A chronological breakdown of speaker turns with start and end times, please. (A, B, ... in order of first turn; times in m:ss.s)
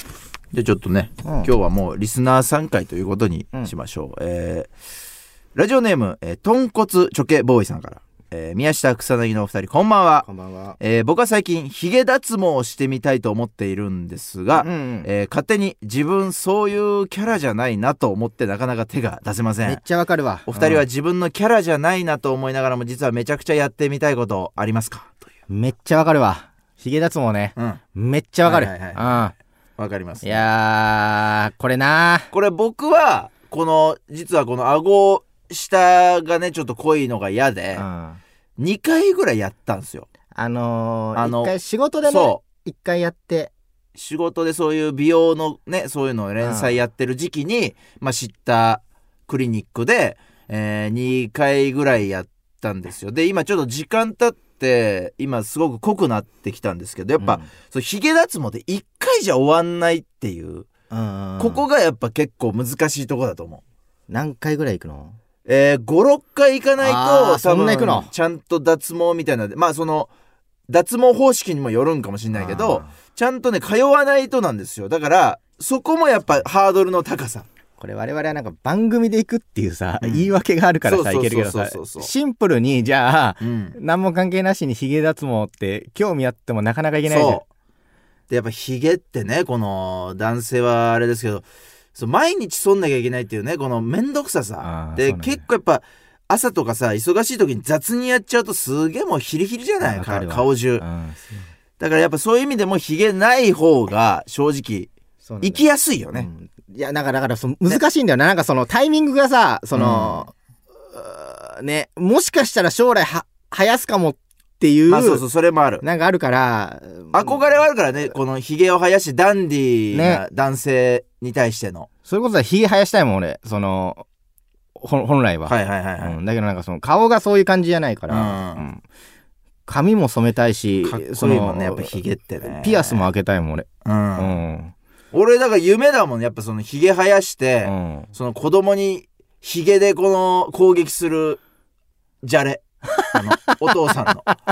0:00.5-0:04.7 A
0:01.2-0:01.5 B
0:05.5-0:10.3 A
0:10.2-0:10.8 B
0:10.8-0:19.8 A
0:14.5-0:15.1 B
0:19.6-0:20.8 B
0:20.5-0:25.2 A
0:25.5-0:29.3 B
0:27.6-0:27.8 A
0:28.4-0:30.5 A
0:30.2-0:32.3 B
0:32.3-0:37.8 A
0:37.7-0:38.2 B
0:38.6-0:40.0 A
0:40.3-0:43.5 B
0:41.2-0:42.4 A
0:44.0-1:00.7 A
0:46.4-0:46.7 B
0:57.2-0:57.4 B
1:00.9-1:01.6 B
1:01.4-1:03.6 A
1:04.1-1:05.2 B
1:05.4-1:10.1 A
1:06.8-1:08.1 B
1:10.7-1:17.4 A
1:12.3-1:12.9 B
1:17.8-1:27.4 B
1:20.0-1:20.3 A
1:20.8-1:22.1 A
1:23.4-1:23.8 A
1:27.1-1:27.4 A
1:28.3-1:40.8 A
1:34.6-1:35.4 B
1:39.8-1:41.5 B
1:41.8-1:44.9 A
1:45.2-1:50.3 B
1:45.4-1:46.3 A
1:49.7-1:50.3 A
1:50.9-1:55.2 B
1:54.9-1:55.8 A
1:55.8-1:57.4 B
1:57.1-2:01.9 A
1:59.9-2:00.2 B
2:02.0-2:04.0 B
2:04.8-2:08.8 B
2:05.4-2:06.2 A
2:08.1-2:08.6 A
2:09.6-2:14.7 B
2:10.8-2:13.1 A
2:13.8-2:14.4 A
2:15.1-2:21.4 A
2:17.6-2:18.1 B
2:22.2-2:24.3 A
2:23.0-2:23.5 B